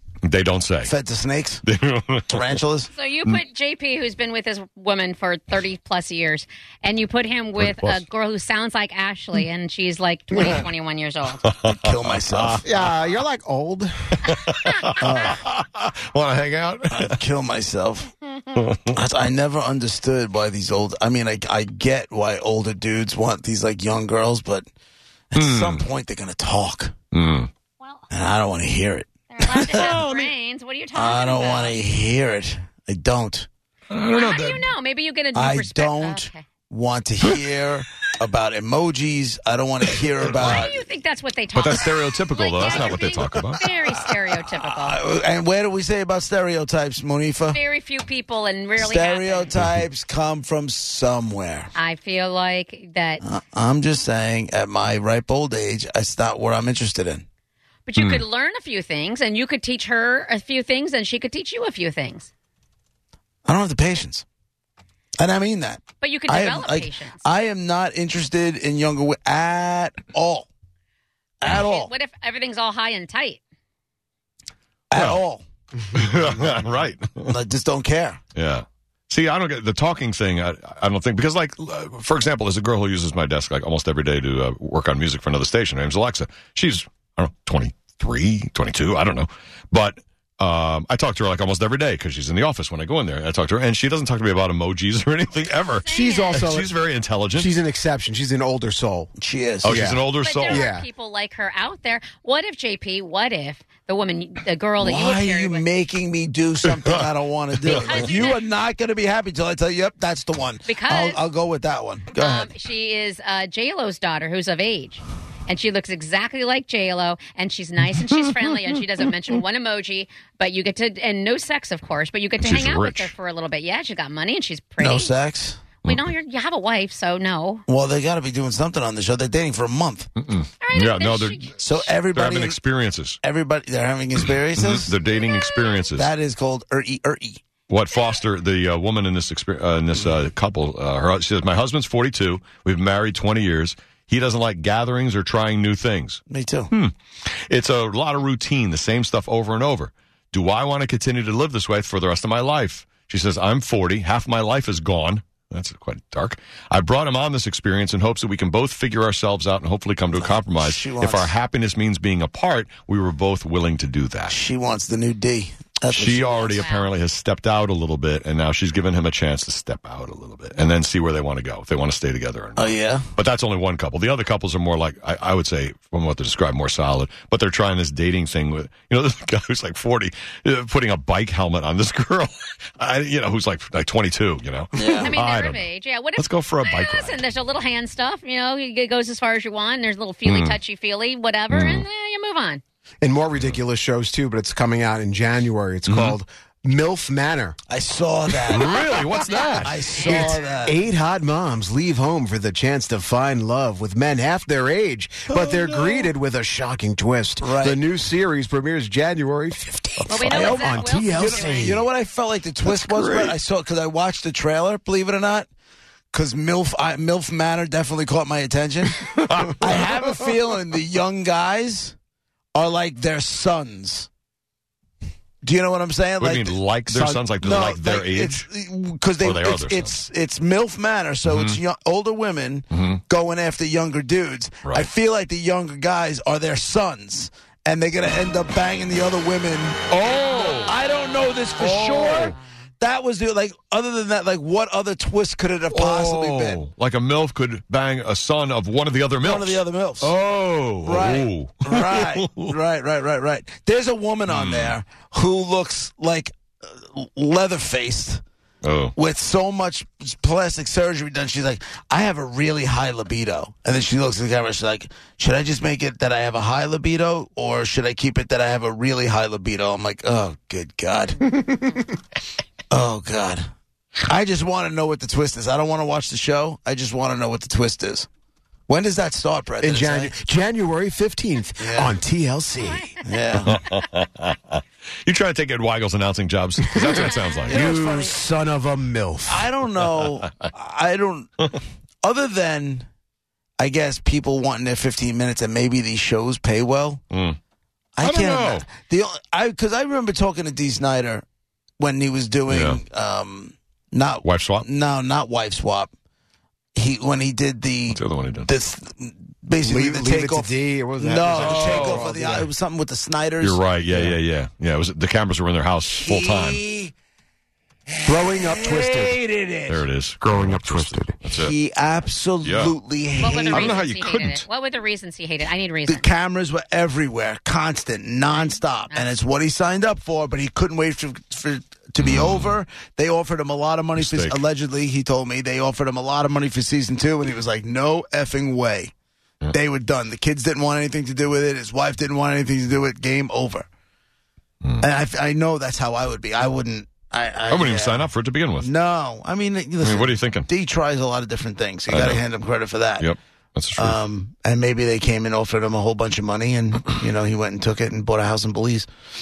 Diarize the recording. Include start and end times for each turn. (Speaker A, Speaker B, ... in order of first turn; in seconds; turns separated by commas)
Speaker A: 0.2-0.9, Speaker B: 0.8-1.6, Speaker A: 1.6-2.6, Speaker B: 2.3-2.9, Speaker C: 2.9-11.4, Speaker A: 7.6-8.0, Speaker A: 11.6-12.7, Speaker B: 11.7-12.7, Speaker D: 12.6-14.3, Speaker A: 14.2-17.2, Speaker B: 15.0-15.4, Speaker B: 16.9-18.1, Speaker B: 18.9-24.6, Speaker B: 25.3-26.9, Speaker A: 25.3-25.9, Speaker A: 27.1-27.5, Speaker B: 28.1-29.9, Speaker C: 29.3-31.8, Speaker A: 29.6-30.3, Speaker B: 30.9-33.5, Speaker A: 33.9-34.7, Speaker C: 34.1-36.4, Speaker B: 35.3-40.8, Speaker A: 40.1-40.7, Speaker C: 40.4-45.0, Speaker A: 41.5-43.6, Speaker B: 42.6-43.0, Speaker B: 44.3-47.6, Speaker C: 47.5-49.5, Speaker B: 48.8-51.7, Speaker C: 51.8-53.2, Speaker B: 53.2-57.2, Speaker C: 57.9-62.3, Speaker A: 58.0-58.2, Speaker B: 63.4-64.2, Speaker B: 65.2-70.5, Speaker C: 66.0-67.3, Speaker B: 71.4-71.9, Speaker C: 71.5-73.4, Speaker B: 74.9-75.4, Speaker A: 74.9-75.2, Speaker A: 75.9-77.3, Speaker B: 77.2-78.2, Speaker A: 78.3-97.5, Speaker C: 95.6-96.5, Speaker D: 95.9-96.7, Speaker D: 97.3-99.1, Speaker B: 99.2-99.8, Speaker A: 99.6-100.7, Speaker D: 99.6-100.9, Speaker C: 100.1-105.7, Speaker B: 104.8-112.5, Speaker A: 106.7-107.0, Speaker C: 107.7-108.4, Speaker C: 110.7-111.2, Speaker C: 112.2-125.1, Speaker A: 122.4-123.1, Speaker B: 124.8-125.6, Speaker C: 125.8-127.6, Speaker B: 127.7-130.1, Speaker A: 130.2-133.2, Speaker C: 130.6-131.6, Speaker B: 131.6-132.6, Speaker B: 133.2-134.9, Speaker A: 134.2-136.1, Speaker C: 135.1-135.8, Speaker B: 135.9-137.4, Speaker A: 137.7-146.9, Speaker B: 146.3-146.7, Speaker A: 147.5-164.4, Speaker B: 160.1-161.3, Speaker B: 164.3-166.6, Speaker A: 165.9-187.2, Speaker C: 166.6-166.9, Speaker B: 172.6-173.1, Speaker B: 184.8-185.1, Speaker C: 184.8-192.6, Speaker A: 190.2-190.6, Speaker A: 191.5-191.8, Speaker D: 193.0-197.6, Speaker A: 195.8-196.2, Speaker B: 197.7-198.8, Speaker A: 198.4-200.4, Speaker C: 198.8-200.4, Speaker B: 199.6-200.8, Speaker D: 200.6-211.8, Speaker A: 205.3-206.1, Speaker B: 207.4-207.8, Speaker B: 210.0-215.5, Speaker C: 210.1-211.8, Speaker A: 212.6-213.3, Speaker B: 216.1-221.9, Speaker A: 219.1-220.1, Speaker B: 222.5-224.1, Speaker B: 225.4-246.6, Speaker A: 226.2-228.4, Speaker A: 229.2-230.0, Speaker A: 231.2-231.6, Speaker A: 232.7-233.0, Speaker A: 234.6-234.9, Speaker A: 239.9-240.8, Speaker A: 241.6-242.3, Speaker A: 245.7-252.5, Speaker B: 249.2-250.1, Speaker B: 250.8-258.2, Speaker A: 254.3-254.8, Speaker A: 258.6-258.9, Speaker B: 258.9-271.4, Speaker B: 272.7-273.4, Speaker B: 274.0-278.1, Speaker B: 278.7-280.1, Speaker D: 279.6-282.9, Speaker B: 281.6-282.0, Speaker C: 282.6-283.1, Speaker B: 283.0-283.6, Speaker A: 283.5-287.7, Speaker C: 286.9-287.3, Speaker D: 286.9-289.5, Speaker B: 287.5-288.2, Speaker B: 289.3-291.5, Speaker B: 292.0-292.9, Speaker B: 293.6-297.0, Speaker A: 297.1-297.4, Speaker B: 297.9-301.2, Speaker A: 298.0-298.7, Speaker B: 301.8-305.9, Speaker A: 302.5-302.8, Speaker A: 304.2-304.7, Speaker B: 306.8-313.6, Speaker A: 307.9-308.5, Speaker D: 309.6-312.5, Speaker A: 311.4-312.1, Speaker A: 313.4-316.6, Speaker D: 313.9-314.2, Speaker B: 315.9-316.9, Speaker B: 317.9-319.8, Speaker D: 318.0-319.2, Speaker A: 319.7-321.5, Speaker D: 320.2-321.1, Speaker B: 321.3-323.8, Speaker A: 322.4-322.8, Speaker C: 323.2-326.0, Speaker A: 323.5-324.4, Speaker B: 325.9-338.9, Speaker C: 328.3-329.1, Speaker A: 332.0-332.6, Speaker A: 333.9-334.4, Speaker B: 339.5-343.7, Speaker B: 344.8-348.1, Speaker A: 347.5-348.7, Speaker B: 348.6-353.1, Speaker A: 349.8-350.5, Speaker A: 351.9-352.2, Speaker A: 353.0-354.0, Speaker B: 353.8-358.9